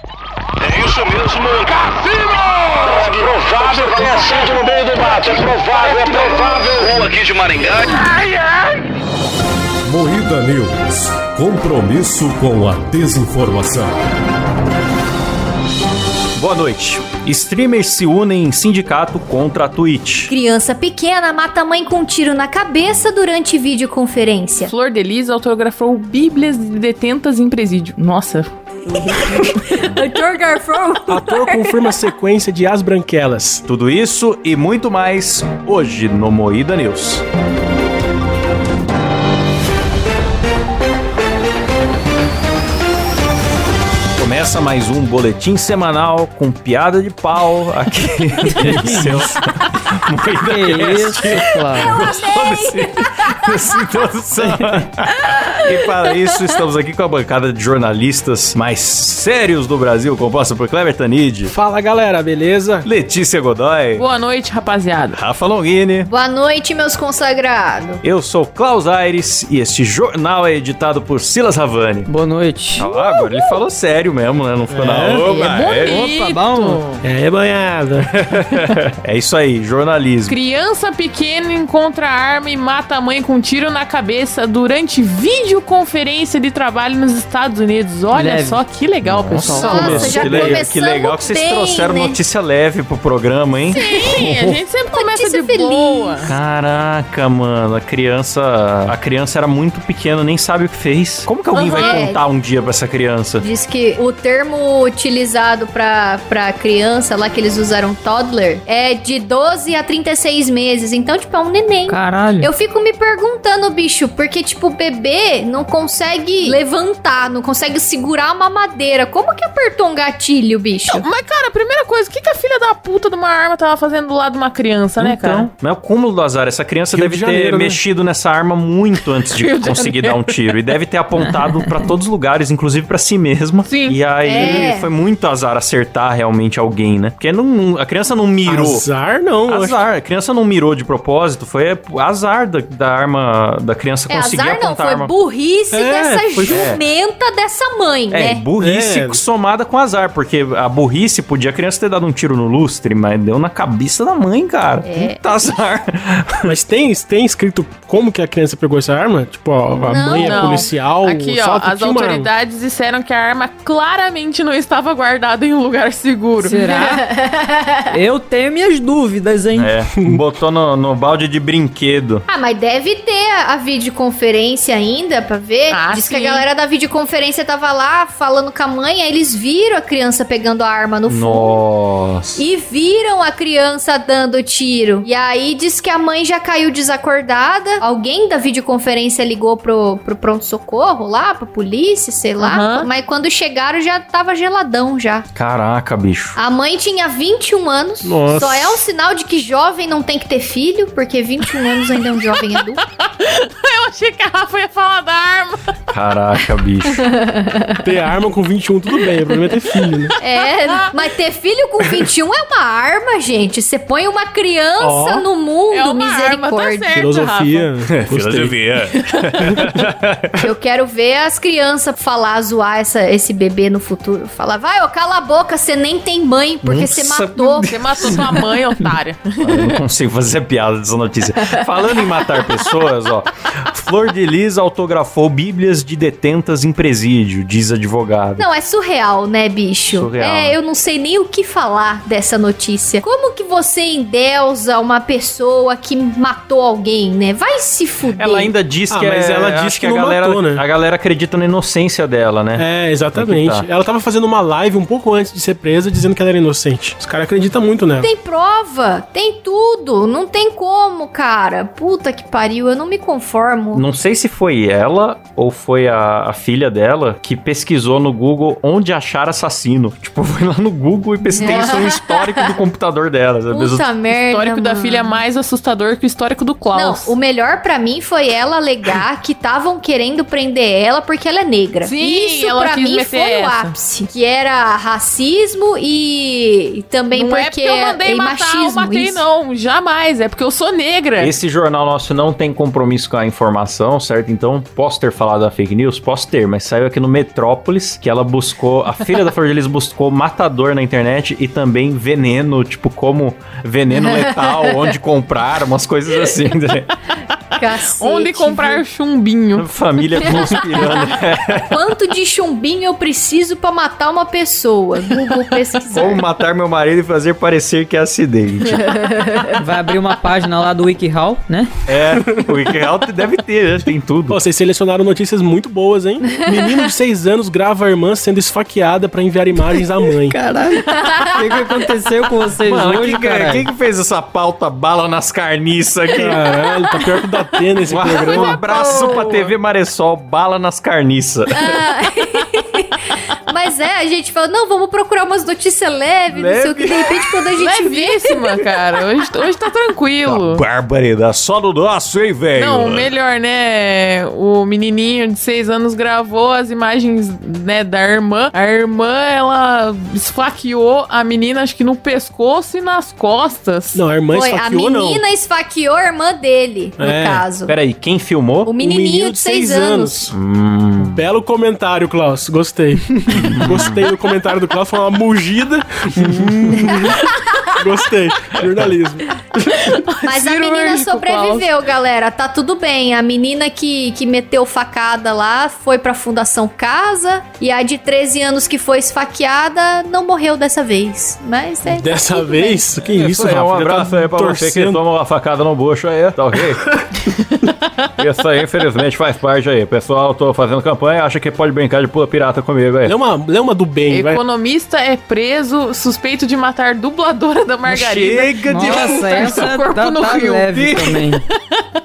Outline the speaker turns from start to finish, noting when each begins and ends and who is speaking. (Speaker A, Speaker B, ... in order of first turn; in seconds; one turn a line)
Speaker A: 0.6-8.1
Speaker B: 9.8-13.9
Speaker C: 16.4-20.3
Speaker D: 20.3-24.7
Speaker E: 24.6-28.5
Speaker D: 28.9-31.8
Speaker F: 31.1-33.6
Speaker C: 33.7-37.2
Speaker C: 44.2-61.5
Speaker G: 48.5-49.3
Speaker G: 50.4-52.0
Speaker D: 51.4-53.9
Speaker D: 55.2-56.5
Speaker F: 61.5-62.9
Speaker C: 62.8-64.1
Speaker E: 64.0-65.2
Speaker C: 65.1-66.1
Speaker D: 66.1-68.0
Speaker C: 68.0-72.1
Speaker G: 72.1-72.9
Speaker C: 72.8-76.1
Speaker D: 72.9-73.6
Speaker F: 74.7-75.3
Speaker E: 75.2-76.8
Speaker G: 75.8-77.0
Speaker F: 77.0-78.3
Speaker C: 78.3-80.4
Speaker E: 80.3-90.1
Speaker G: 88.1-88.6
Speaker C: 89.0-94.6
Speaker F: 89.5-90.6
Speaker D: 89.6-92.2
Speaker E: 93.7-96.3
Speaker D: 94.9-96.3
Speaker C: 96.2-103.5
Speaker D: 101.6-102.2
Speaker E: 101.7-102.0
Speaker D: 103.4-121.1
Speaker G: 111.9-112.5
Speaker E: 120.9-125.5
Speaker C: 125.0-138.8
Speaker F: 126.9-127.8
Speaker E: 129.2-130.6
Speaker E: 133.7-134.5
Speaker D: 134.2-134.9
Speaker F: 138.5-139.8
Speaker C: 139.5-145.1
Speaker D: 144.1-148.5
Speaker F: 145.7-146.7
Speaker C: 146.5-146.8
Speaker C: 148.1-156.5
Speaker F: 148.6-149.2
Speaker D: 154.8-155.2
Speaker F: 156.4-162.3
Speaker D: 159.7-160.7
Speaker E: 160.2-166.6
Speaker G: 166.4-167.1
Speaker D: 166.6-168.0
Speaker G: 167.9-169.8
Speaker C: 169.6-172.2
Speaker D: 172.3-181.6
Speaker E: 175.7-176.5
Speaker C: 181.1-182.4
Speaker D: 182.4-195.3
Speaker E: 192.4-192.9
Speaker C: 195.3-196.4
Speaker D: 196.4-202.8
Speaker F: 198.0-198.8
Speaker E: 201.9-202.6
Speaker E: 203.2-205.9
Speaker C: 205.9-207.1
Speaker D: 207.0-207.8
Speaker F: 207.8-210.1
Speaker E: 209.0-210.9
Speaker D: 210.2-217.0
Speaker F: 214.8-215.2
Speaker E: 215.7-217.7
Speaker F: 216.9-218.6
Speaker C: 217.9-220.4
Speaker E: 218.9-219.7
Speaker D: 220.4-227.7
Speaker C: 226.6-228.4
Speaker E: 227.6-229.8
Speaker C: 229.4-238.5
Speaker D: 238.4-248.5
Speaker C: 239.9-240.6
Speaker C: 248.2-253.7
Speaker F: 248.9-250.6
Speaker F: 252.6-258.1
Speaker D: 258.0-263.8
Speaker C: 263.7-273.9
Speaker D: 271.3-272.5
Speaker D: 273.5-275.2
Speaker E: 274.1-277.1
Speaker D: 276.7-289.2
Speaker E: 281.9-283.7
Speaker E: 287.1-291.4
Speaker C: 291.2-306.9
Speaker D: 304.0-304.9
Speaker D: 307.6-308.8
Speaker E: 308.0-310.4
Speaker C: 309.6-311.8
Speaker D: 310.2-311.1
Speaker D: 311.7-316.2
Speaker C: 315.9-318.8
Speaker D: 318.8-319.6
Speaker G: 319.6-321.8
Speaker C: 321.9-324.4
Speaker F: 324.3-330.4
Speaker D: 326.3-326.9
Speaker G: 330.3-333.7
Speaker D: 331.0-331.4
Speaker C: 332.6-336.4
Speaker F: 336.2-338.6
Speaker D: 336.3-337.2
Speaker C: 337.9-341.8
Speaker D: 337.9-339.4
Speaker D: 341.6-342.9
Speaker D: 343.5-348.3
Speaker C: 346.3-347.5
Speaker E: 347.6-350.6
Speaker C: 350.2-353.1
Speaker E: 352.6-364.0
Speaker F: 363.9-365.2
Speaker D: 364.3-367.8
Speaker F: 367.0-367.4
Speaker C: 367.7-368.7
Speaker D: 368.6-370.2
Speaker F: 368.8-370.3
Speaker C: 370.3-371.2
Speaker F: 371.0-377.2
Speaker C: 373.3-374.1
Speaker D: 376.8-377.8
Speaker F: 377.8-379.6
Speaker E: 379.8-381.8
Speaker D: 380.2-392.9
Speaker F: 391.9-395.0
Speaker C: 393.2-397.2
Speaker C: 398.2-403.1
Speaker F: 403.1-404.4
Speaker E: 404.1-411.3
Speaker C: 407.9-409.8
Speaker G: 408.7-411.4
Speaker C: 410.7-411.1